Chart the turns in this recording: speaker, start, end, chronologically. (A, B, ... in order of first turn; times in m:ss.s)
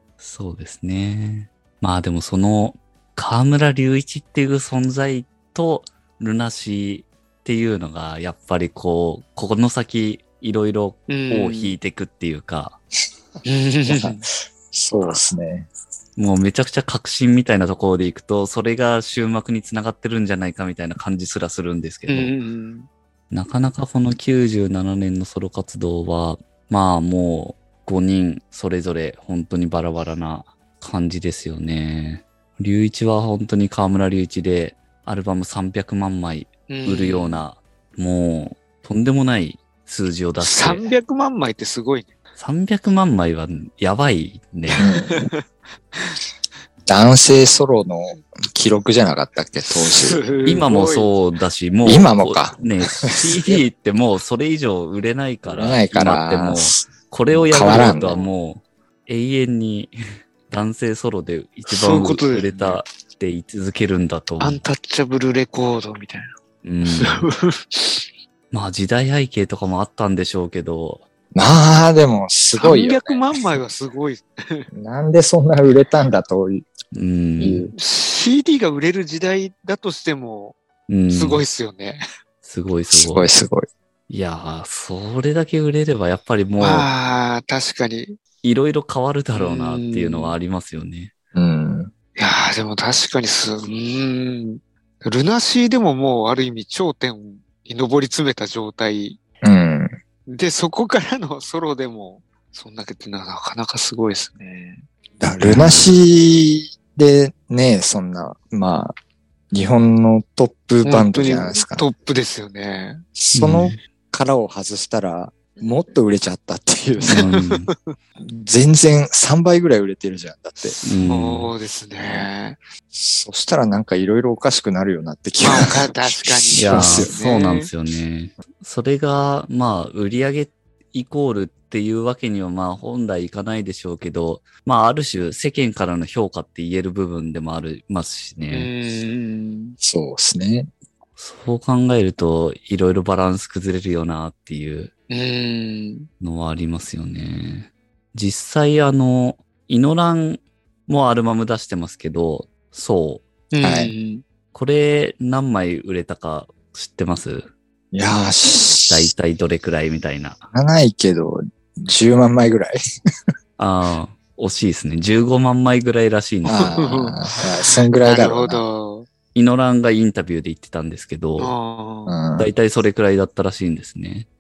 0:00.2-0:12.8 A
0:11.1-0:11.8 B
0:13.4-0:14.2 B
0:13.9-0:15.7 C
0:16.2-0:22.3 A
0:22.1-0:22.9 B
0:23.3-0:40.9 A
0:36.7-0:37.4 B
0:40.4-0:42.1 B
0:42.4-0:44.9 A
0:44.7-0:46.2 B
0:44.8-0:45.3 C
0:46.9-0:50.2 C
0:49.7-0:51.1 B
0:50.4-1:00.0 A
0:51.9-0:53.6 C
0:55.4-0:58.2 C
0:57.5-0:58.3 B
1:00.5-1:04.6 A
1:01.7-1:02.8 B
1:04.4-1:08.0 B
1:06.6-1:07.3 A
1:08.5-1:11.0 A
1:11.3-1:13.6 C
1:12.6-1:14.7 B
1:14.7-1:16.7 C
1:16.9-1:17.7 A
1:17.4-1:17.7 C
1:17.7-1:20.6 B
1:20.9-1:21.4 A
1:21.1-1:22.0 B
1:22.4-1:23.3 A
1:22.9-1:23.7 C
1:24.1-1:26.9 A
1:26.6-1:28.2 B
1:28.4-1:31.1 A
1:29.3-1:30.4 B
1:31.3-1:31.9 C
1:32.2-1:39.2 B
1:39.4-1:40.0 C
1:40.3-1:44.8 B
1:45.2-1:48.9 C
1:45.4-1:45.9 A
1:49.5-1:51.8 C
1:50.8-1:53.0 B
1:53.2-1:57.3 C
1:53.3-1:53.7 A
1:57.1-1:58.0 B
1:57.1-1:57.7 A
1:58.2-2:00.8 C
2:00.6-2:02.6 B
2:00.8-2:01.5 A
2:02.0-2:02.3 C
2:02.9-2:07.2 C
2:05.4-2:07.7 B
2:06.6-2:18.7 A
2:18.5-2:19.8 B
2:19.8-2:20.7 C
2:21.2-2:24.9 A
2:25.1-2:26.1 B
2:26.2-2:33.3 A
2:33.5-2:34.2 B
2:33.6-2:33.9 C
2:34.5-2:37.5 A
2:37.9-2:39.1 C
2:38.9-2:40.4 A
2:40.5-2:42.8 C
2:43.6-2:46.8 A
2:46.4-2:48.6 C
2:46.5-2:49.1 B
2:49.3-2:51.6 A
2:51.4-2:52.2 B
2:52.1-2:52.5 C
2:52.4-2:54.3 A